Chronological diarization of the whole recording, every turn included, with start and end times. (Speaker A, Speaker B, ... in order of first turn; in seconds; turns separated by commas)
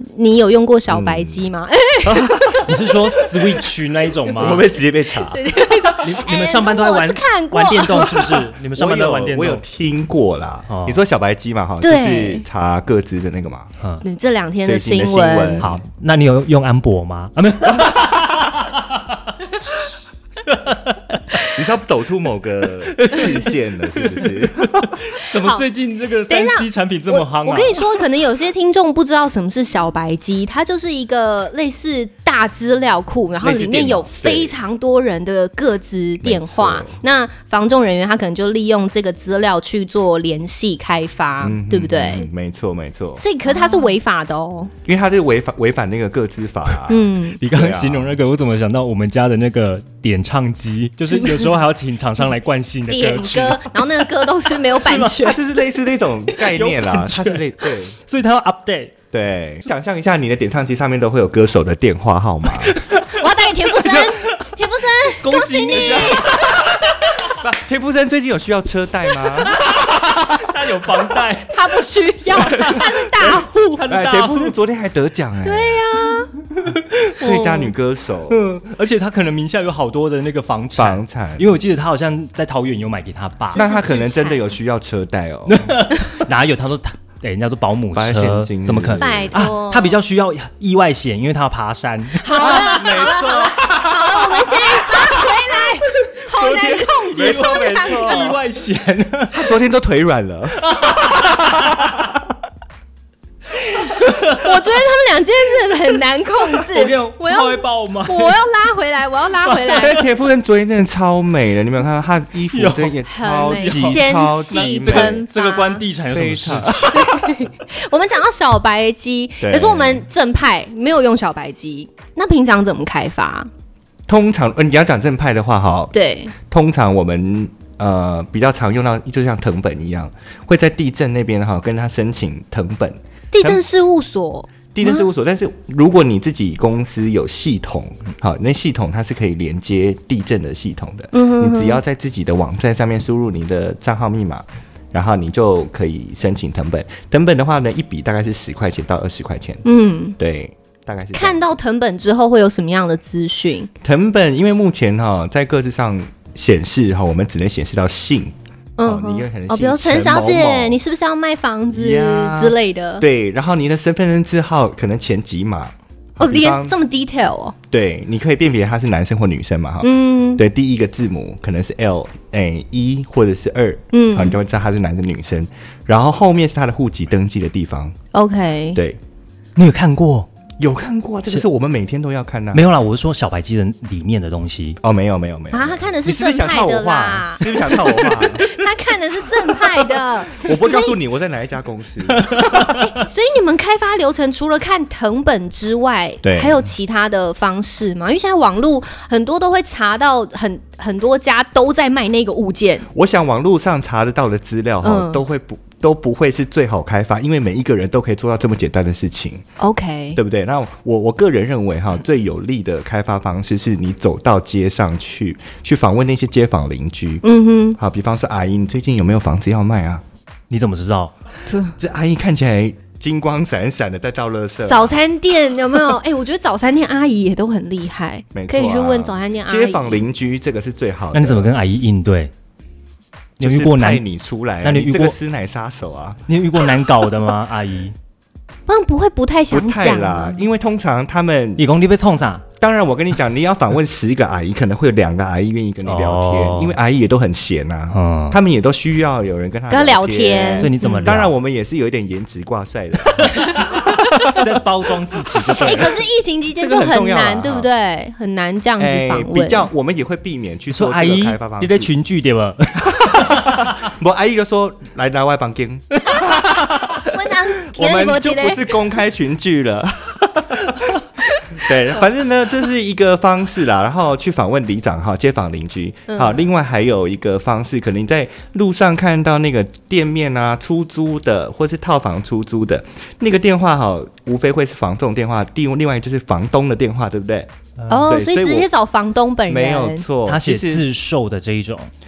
Speaker A: 0.1-2.6, Speaker B: 0.9-1.4, Speaker C: 2.0-4.7, Speaker B: 2.5-2.7, Speaker B: 3.3-3.6, Speaker B: 4.3-5.4, Speaker A: 5.1-8.5, Speaker C: 6.0-9.6, Speaker B: 8.7-13.7, Speaker C: 10.7-11.0, Speaker A: 11.8-12.5, Speaker A: 14.0-15.7, Speaker B: 14.7-15.8, Speaker C: 15.6-19.8, Speaker C: 20.5-21.5, Speaker B: 21.6-25.1, Speaker C: 22.9-28.0, Speaker A: 26.3-42.3, Speaker B: 33.4-34.5, Speaker B: 36.2-37.0, Speaker B: 41.4-43.2, Speaker A: 43.2-44.7, Speaker B: 44.9-48.2, Speaker A: 46.9-47.4, Speaker C: 47.4-53.6, Speaker A: 51.2-51.5, Speaker A: 52.9-55.4, Speaker C: 54.7-55.4, Speaker B: 55.2-58.0, Speaker C: 56.3-58.9, Speaker B: 59.1-62.8, Speaker C: 62.6-63.0, Speaker A: 63.1-66.5, Speaker C: 65.2-67.3, Speaker B: 65.7-69.6, Speaker C: 69.2-74.5, Speaker A: 71.5-73.5, Speaker B: 72.4-72.8, Speaker B: 73.9-75.8, Speaker A: 75.4-76.3, Speaker C: 76.5-77.5, Speaker B: 77.2-78.4, Speaker A: 77.3-77.7, Speaker C: 78.3-83.7, Speaker B: 80.8-81.5, Speaker A: 83.5-84.5, Speaker B: 83.5-85.8, Speaker C: 85.5-93.2, Speaker B: 88.0-89.3, Speaker A: 88.9-90.0, Speaker A: 92.2-98.2, Speaker B: 92.4-95.6, Speaker B: 96.2-98.4, Speaker C: 96.7-99.4, Speaker B: 99.3-102.1, Speaker C: 100.6-102.0, Speaker C: 103.6-104.5, Speaker A: 104.3-110.0, Speaker C: 106.5-108.4, Speaker C: 109.4-110.0, Speaker B: 109.8-115.2, Speaker C: 112.5-117.3, Speaker A: 113.1-115.9, Speaker B: 116.1-117.0, Speaker A: 116.8-123.5, Speaker B: 119.4-120.0, Speaker B: 124.1-125.9, Speaker A: 125.9-126.3, Speaker B: 126.5-133.6, Speaker A: 133.3-135.1, Speaker B: 134.8-149.6, Speaker A: 141.1-141.8, Speaker A: 149.7-150.2, Speaker B: 150.2-151.5, Speaker A: 151.1-153.7, Speaker B: 153.8-158.3, Speaker A: 158.8-163.1, Speaker B: 158.8-160.8, Speaker B: 161.7-166.8, Speaker A: 166.2-167.6, Speaker B: 167.7-177.9, Speaker A: 169.8-170.4, Speaker A: 173.9-174.4, Speaker A: 178.1-178.8, Speaker C: 179.6-180.3, Speaker B: 180.6-182.7, Speaker C: 182.5-184.8, Speaker B: 184.8-188.5, Speaker A: 185.5-191.0, Speaker B: 190.3-192.7, Speaker C: 192.2-192.8, Speaker A: 192.4-202.9, Speaker B: 196.2-196.7, Speaker B: 202.9-209.4, Speaker A: 204.8-205.2, Speaker A: 209.6-210.2, Speaker B: 210.2-217.2, Speaker A: 217.2-217.8, Speaker B: 217.8-220.0, Speaker C: 220.5-221.1, Speaker A: 221.5-221.8, Speaker B: 221.8-225.0, Speaker A: 224.7-230.1, Speaker B: 228.3-231.5, Speaker C: 231.1-232.3, Speaker C: 233.4-234.0, Speaker B: 233.4-236.2, Speaker C: 234.6-235.2, Speaker C: 236.3-238.0, Speaker A: 238.7-240.5, Speaker B: 239.5-241.6, Speaker C: 241.6-242.4, Speaker B: 242.6-254.5, Speaker C: 245.8-246.8, Speaker C: 247.9-248.4, Speaker A: 249.7-251.2, Speaker C: 250.6-251.3, Speaker C: 253.4-255.9, Speaker B: 255.5-255.9, Speaker A: 255.6-259.7, Speaker B: 256.6-257.7, Speaker B: 258.8-261.9, Speaker C: 260.7-263.8, Speaker B: 262.9-271.0, Speaker A: 266.1-268.8, Speaker B: 271.5-287.5, Speaker A: 276.1-276.4, Speaker A: 287.9-290.1, Speaker B: 288.1-288.7, Speaker B: 289.5-290.9, Speaker C: 290.2-291.9